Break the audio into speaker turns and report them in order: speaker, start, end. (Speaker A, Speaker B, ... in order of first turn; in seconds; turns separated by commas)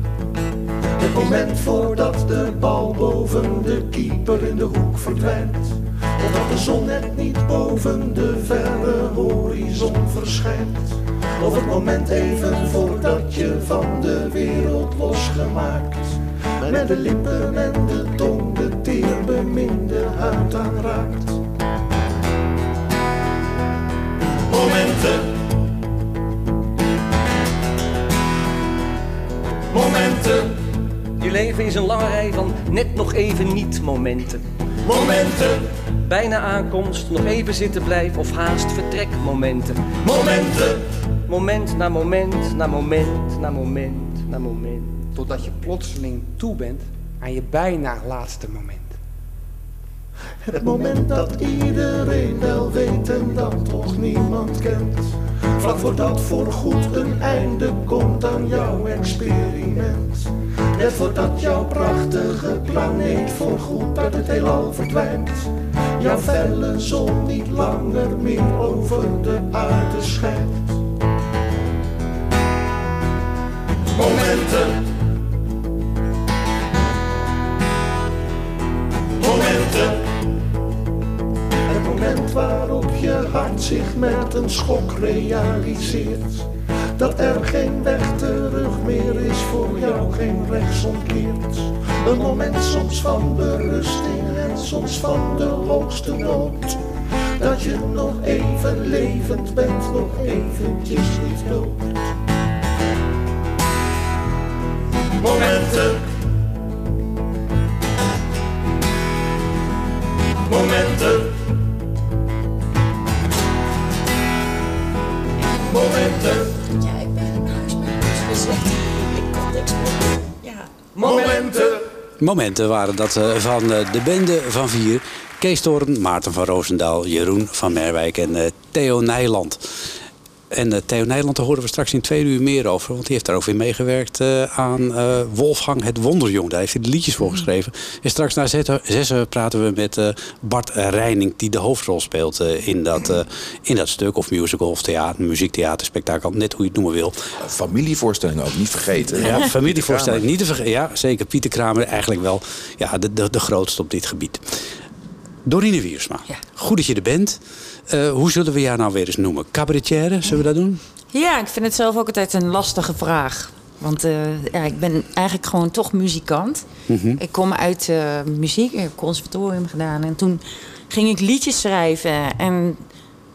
Speaker A: 1.0-21.4, Speaker B: 31.2-35.5, Speaker B: 36.0-40.7, Speaker B: 41.3-45.0, Speaker C: 45.1-48.9, Speaker A: 50.4-70.8, Speaker A: 74.0-74.7, Speaker A: 79.2-79.9, Speaker A: 81.7-86.5, Speaker A: 87.0-96.8, Speaker A: 97.4-102.0, Speaker A: 105.2-106.0, Speaker D: 115.6-120.7, Speaker E: 122.2-129.6, Speaker E: 130.5-147.3, Speaker F: 147.4-150.2, Speaker E: 149.2-154.6, Speaker E: 155.4-157.4, Speaker E: 157.9-160.8, Speaker D: 161.1-166.6, Speaker E: 166.9-167.2, Speaker D: 167.2-172.8